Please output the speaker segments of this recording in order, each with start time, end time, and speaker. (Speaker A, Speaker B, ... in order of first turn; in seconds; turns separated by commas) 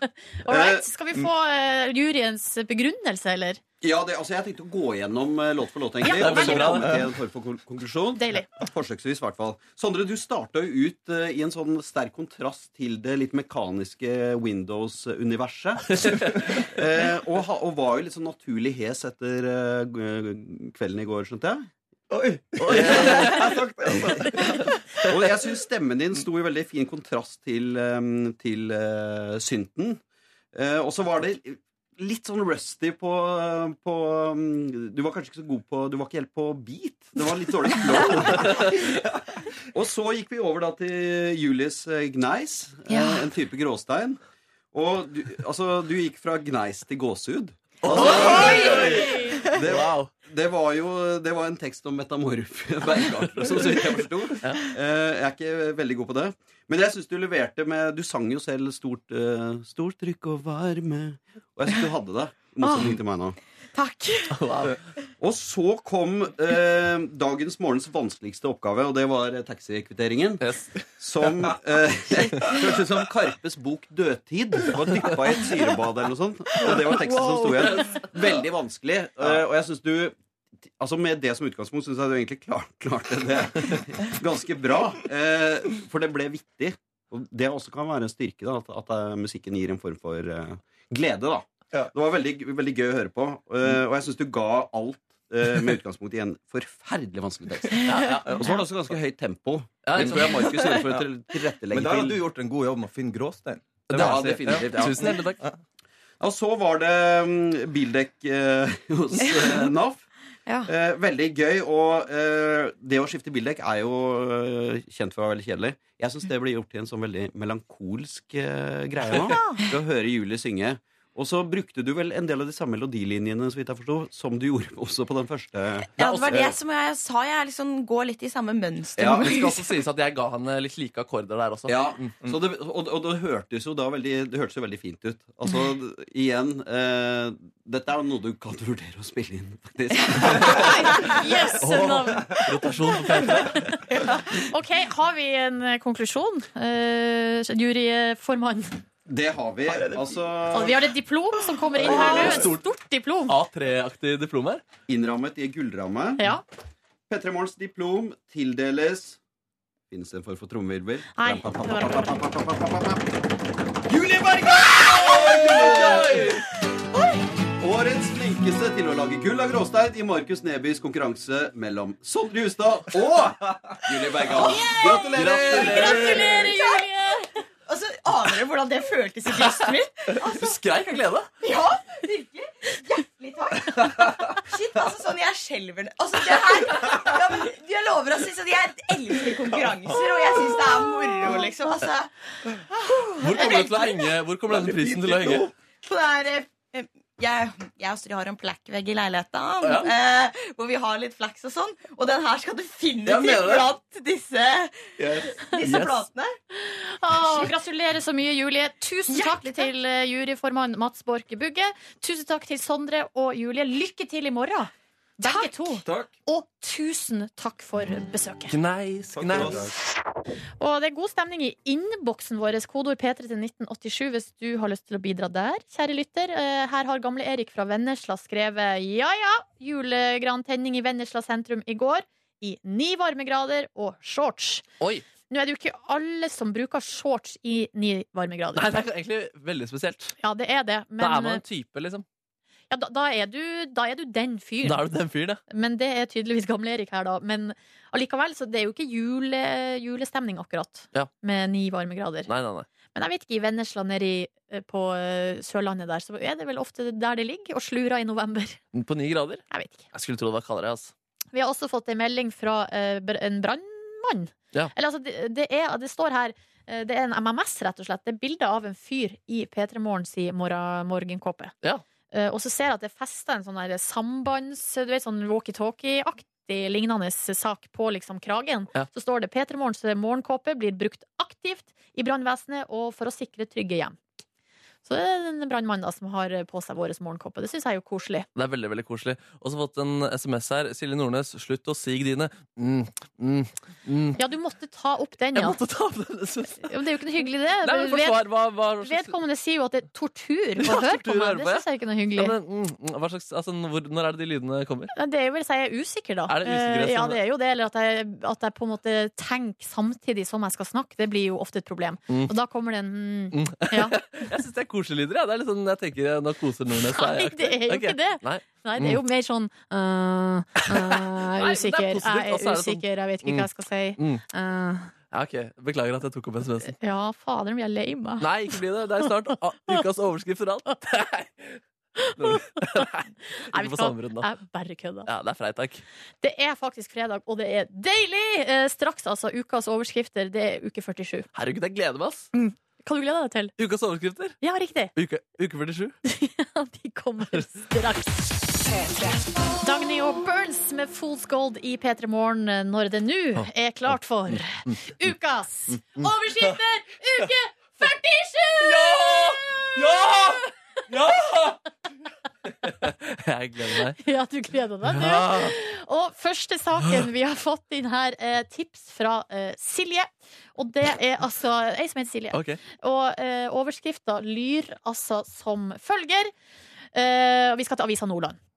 Speaker A: 0.4-3.6, Speaker B: 0.5-0.9, Speaker B: 3.8-21.7, Speaker A: 6.0-6.9, Speaker C: 6.1-7.0, Speaker A: 8.2-8.5, Speaker C: 15.9-16.2, Speaker D: 22.1-25.2, Speaker B: 22.6-24.4, Speaker C: 22.7-23.5, Speaker B: 25.1-30.0, Speaker B: 30.5-39.0, Speaker B: 39.7-44.2, Speaker E: 42.9-43.2, Speaker B: 44.7-49.0, Speaker C: 47.8-48.8, Speaker D: 47.9-49.1, Speaker E: 48.0-49.5, Speaker A: 48.4-49.3, Speaker B: 49.5-63.4, Speaker C: 49.6-50.1, Speaker E: 62.6-62.9, Speaker E: 63.7-64.4, Speaker C: 64.3-64.8, Speaker B: 65.2-70.4, Speaker C: 70.4-70.7, Speaker B: 71.0-80.1, Speaker E: 77.1-77.6, Speaker B: 80.8-102.2, Speaker C: 97.8-98.4, Speaker C: 99.8-101.0, Speaker D: 100.0-100.3, Speaker D: 101.7-105.5, Speaker B: 103.9-105.2, Speaker C: 103.9-105.4, Speaker B: 106.2-110.0, Speaker B: 110.7-126.5, Speaker E: 119.2-119.7, Speaker E: 126.0-129.5, Speaker C: 126.0-126.5, Speaker B: 129.0-129.5, Speaker C: 129.0-132.2, Speaker B: 131.7-140.9, Speaker E: 140.6-141.0, Speaker A: 140.9-142.4, Speaker C: 141.6-143.7, Speaker D: 141.8-142.1, Speaker A: 143.3-143.8, Speaker A: 144.3-148.8, Speaker B: 149.1-150.8, Speaker D: 149.7-150.1, Speaker A: 150.5-153.3, Speaker C: 151.8-152.6, Speaker B: 152.0-152.4, Speaker C: 153.3-154.6, Speaker B: 154.9-156.3, Speaker A: 156.2-156.4, Speaker B: 157.1-159.2, Speaker B: 159.9-163.1, Speaker A: 161.1-162.2, Speaker B: 163.9-166.3, Speaker D: 165.1-166.2, Speaker B: 167.6-176.2, Speaker E: 174.4-175.2, Speaker A: 174.6-177.3, Speaker C: 175.0-176.5, Speaker D: 175.1-175.5, Speaker E: 176.5-176.8, Speaker E: 177.7-180.6, Speaker C: 180.2-181.3, Speaker E: 181.4-192.1, Speaker E: 192.7-193.9, Speaker C: 193.2-195.5, Speaker D: 194.5-195.5, Speaker E: 195.8-206.3, Speaker C: 199.6-199.9, Speaker C: 203.0-203.7, Speaker D: 205.0-205.4, Speaker C: 205.6-206.0, Speaker A: 206.6-218.6, Speaker E: 209.1-209.7, Speaker E: 215.2-215.5, Speaker C: 218.5-219.7, Speaker D: 219.1-219.7, Speaker A: 220.6-234.6, Speaker C: 234.8-235.1, Speaker A: 235.3-238.7, Speaker C: 238.5-240.2, Speaker A: 240.2-241.4, Speaker C: 241.0-242.0, Speaker A: 242.7-244.8, Speaker C: 244.6-245.4, Speaker A: 245.5-252.3, Speaker C: 252.2-252.7, Speaker A: 252.9-258.6, Speaker C: 258.7-260.9, Speaker A: 259.5-259.9, Speaker A: 261.3-271.5, Speaker A: 272.1-284.0, Speaker A: 284.8-288.3, Speaker C: 288.3-294.2, Speaker A: 294.2-295.6, Speaker C: 295.3-296.7, Speaker A: 296.6-298.2, Speaker C: 297.6-299.2, Speaker A: 298.8-302.4, Speaker C: 300.6-304.9, Speaker A: 304.9-314.0, Speaker C: 306.3-307.2, Speaker C: 313.3-319.0, Speaker A: 316.9-324.9, Speaker C: 320.6-324.2, Speaker C: 325.1-326.7, Speaker A: 326.7-328.6, Speaker C: 328.2-331.6, Speaker A: 332.0-332.9, Speaker C: 332.1-334.3, Speaker A: 333.5-335.1, Speaker C: 335.0-335.8, Speaker A: 336.2-341.3, Speaker C: 341.3-342.3, Speaker A: 342.3-343.5, Speaker C: 343.6-344.4, Speaker A: 344.4-344.9, Speaker C: 344.9-346.0, Speaker A: 346.0-348.4, Speaker A: 349.6-359.7, Speaker C: 358.6-360.3, Speaker C: 360.9-361.6, Speaker C: 362.5-364.0, Speaker A: 364.0-376.3, Speaker C: 364.8-365.6, Speaker C: 372.3-372.6, Speaker A: 376.9-378.4